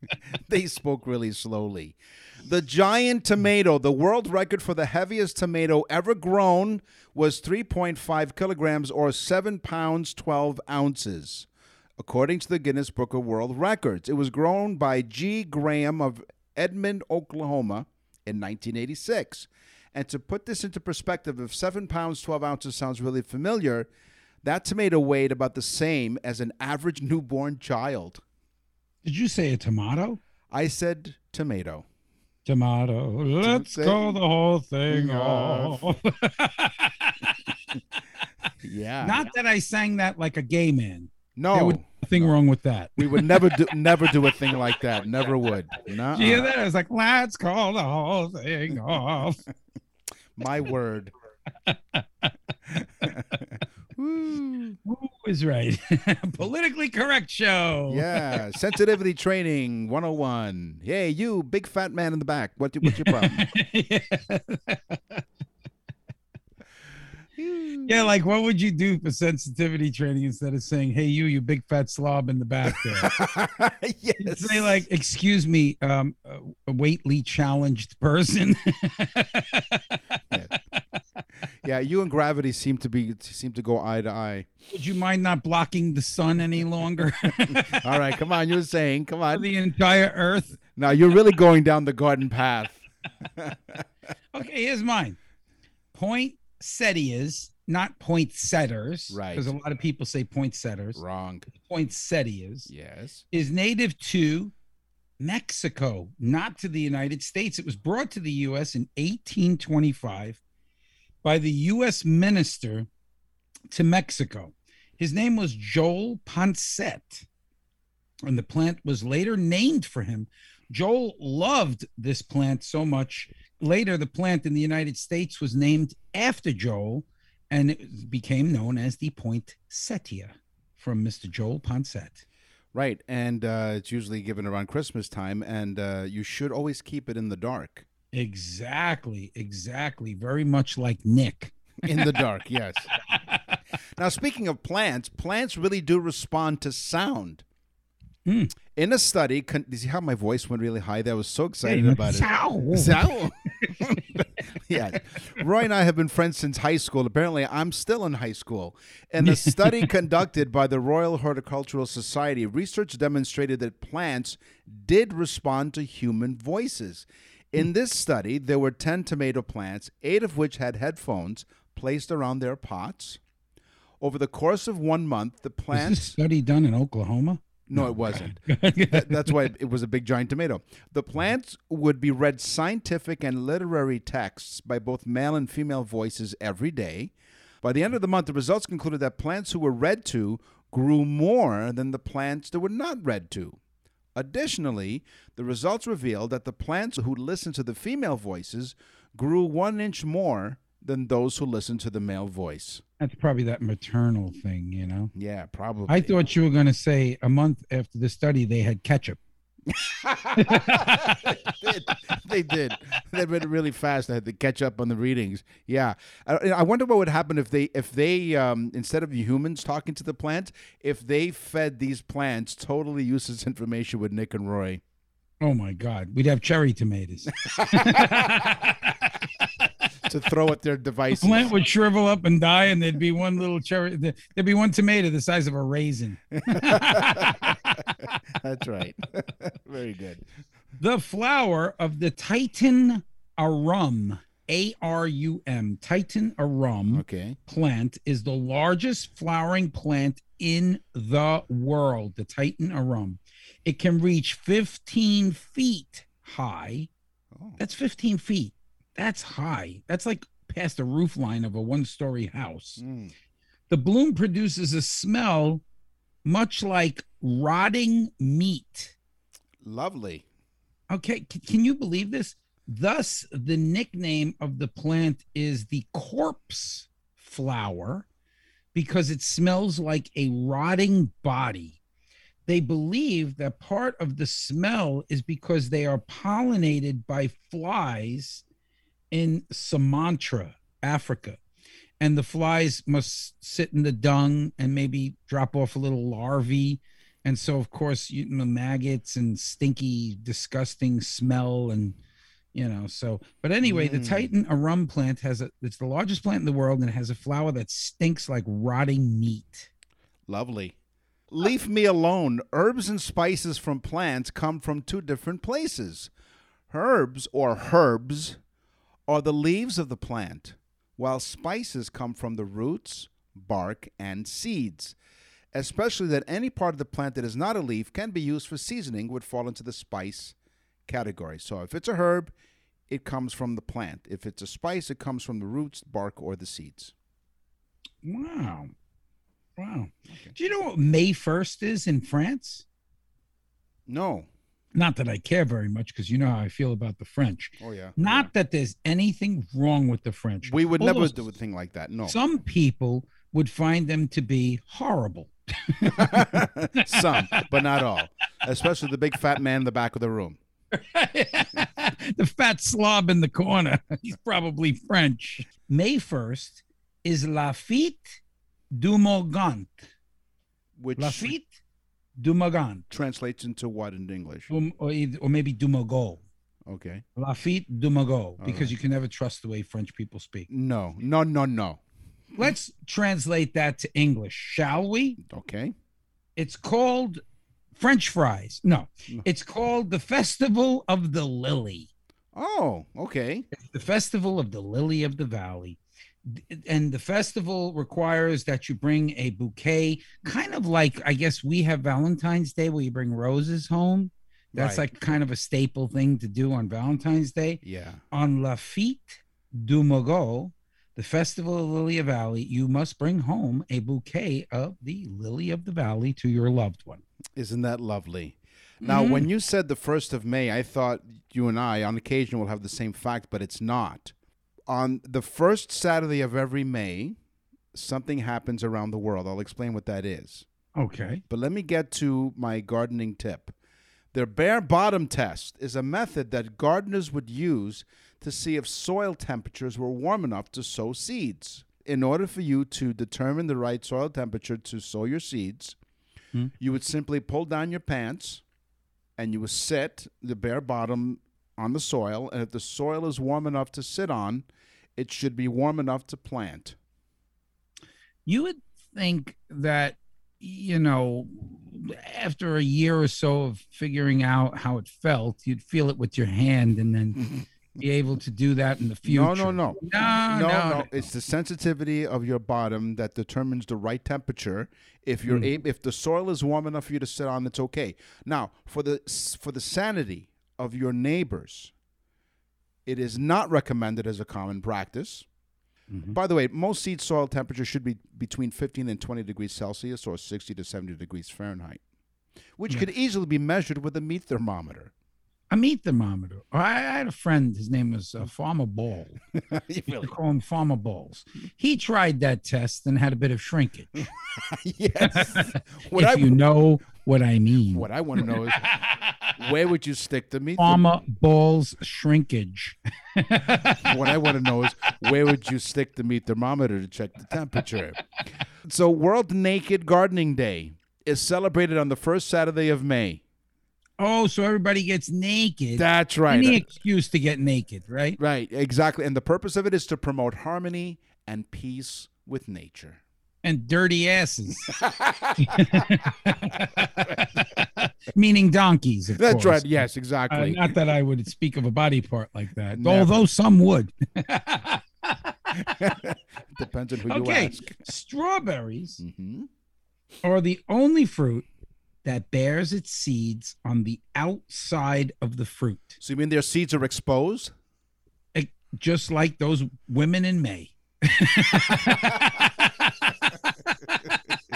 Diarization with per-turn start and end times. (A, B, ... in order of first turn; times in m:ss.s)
0:00.3-0:11.5 A
0:12.0-0:23.9 A
0:24.4-0:28.2 A
0:29.0-0:30.2 B
0:30.5-0:31.9 A
0:32.5-0:37.5 B
0:33.4-0:34.1 A
0:34.9-0:35.9 A
0:38.6-0:39.2 A
0:39.0-0:43.6 B
0:41.4-0:42.3 A
0:43.0-0:46.5 A
0:46.1-0:49.4 B
0:50.4-0:51.1 A
0:51.7-0:52.3 B
0:53.0-0:54.8 A
0:54.8-0:58.2 B
0:57.9-1:03.4 A
1:02.8-1:05.0 B
1:07.4-1:08.1 A
1:07.9-1:13.2 B
1:13.0-1:14.8 A
1:14.2-1:19.9 B
1:21.6-1:24.5 A
1:24.7-1:27.8 B
1:27.7-1:29.5 A
1:29.3-1:30.6 B
1:30.8-1:33.8 A
1:34.3-1:35.2 B
1:35.9-1:42.7 B
1:39.1-1:39.5 A
1:41.0-1:41.5 A
1:42.7-1:43.2 A
1:43.3-1:44.5 B
1:45.2-1:50.4 B
1:51.2-1:52.9 B
1:53.7-1:57.3 B
1:58.2-2:12.2 B
2:12.7-2:17.9 A
2:18.1-2:22.0 B
2:21.8-2:22.9 A
2:24.0-2:27.4 A
2:28.3-2:28.5 B
2:28.8-2:53.2 A
2:31.6-2:33.1 B
2:39.2-2:39.9 B
2:54.0-2:56.2 A
2:55.7-2:59.5 B
2:57.7-3:13.6 A
3:14.2-3:22.8 A
3:23.0-3:25.1 B
3:25.1-3:26.2 A
3:25.9-3:29.2 B
3:29.7-3:44.8 A
3:30.4-3:31.3 B
3:45.4-3:49.1 B
3:47.5-3:48.6 A
3:50.0-3:51.5 A
3:51.2-3:57.9 B
3:56.4-3:57.8 A
3:58.4-4:00.3 A
4:00.8-4:16.9 B
4:06.9-4:07.4 A
4:17.4-4:17.6 A
4:17.6-4:22.8 B
4:22.8-4:23.1 A
4:23.7-4:25.6 B
4:26.2-4:29.0 B
4:29.6-4:30.3 A
4:30.9-4:38.1 B
4:38.7-4:41.8 B
4:42.5-4:48.4 B
4:49.1-4:51.4 B
4:52.0-5:02.0 B
5:02.5-5:09.7 B
5:03.6-5:04.3 A
5:10.3-5:10.8 A
5:11.3-5:16.1 A
5:16.7-5:18.4 A
5:19.1-5:25.0 A
5:25.5-5:30.4 A
5:30.9-5:32.3 A
5:32.9-5:36.9 A
5:38.0-5:38.7 B
5:39.6-5:42.6 B
5:43.9-5:44.3 A
5:44.7-5:51.2 B
5:47.6-5:48.3 A
5:50.4-5:52.2 A
5:52.1-5:57.5 B
5:56.0-6:00.4 A
6:00.7-6:08.2 B
6:08.7-6:09.9 B
6:10.8-6:11.4 A
6:11.0-6:11.5 B
6:12.2-6:12.8 B
6:12.9-6:14.5 A
6:14.5-6:16.2 B
6:16.7-6:17.0 A
6:17.2-6:20.5 B
6:18.4-6:18.8 A
6:20.5-6:21.8 A
6:22.4-6:25.2 B
6:25.2-6:25.7 A
6:26.4-6:27.2 B
6:27.8-6:31.9 B
6:32.3-6:33.5 A
6:33.5-6:57.0 B
6:44.5-6:44.9 A
6:47.6-6:48.0 A
6:57.4-7:04.1 A
6:58.8-6:59.3 B
7:04.7-7:07.2 A
7:07.7-7:10.5 A
7:10.8-7:11.2 B
7:11.3-7:13.5 A
7:14.1-7:25.8 A
7:26.6-7:28.4 A
7:29.2-7:36.8 A
7:38.3-7:50.9 B
7:49.0-8:01.7 A
8:02.9-8:05.3 A
8:05.9-8:06.2 B
8:06.1-8:11.8 A
8:12.6-8:14.9 A
8:15.5-8:19.2 B
8:19.4-8:20.2 A
8:20.0-8:24.1 B
8:24.4-8:26.4 A
8:25.0-8:29.3 B
8:27.7-8:28.7 A
8:29.4-8:31.0 A
8:30.6-8:34.1 B
8:33.5-8:38.0 A
8:37.6-8:38.0 B
8:38.6-8:43.2 A
8:44.0-8:48.2 B
8:45.8-8:46.6 A
8:48.2-8:53.0 A
8:53.4-8:54.7 B
8:54.7-8:56.0 A
8:55.4-8:59.7 B
8:57.0-8:57.6 A
8:59.2-9:00.6 A
9:00.3-9:05.7 B
9:02.7-9:03.2 A
9:05.5-9:07.8 A
9:07.1-9:09.0 B
9:09.0-9:09.5 A
9:10.2-9:11.5 B
9:12.0-9:16.0 B
9:16.0-9:17.5 A
9:18.4-9:24.1 B
9:21.7-9:22.2 A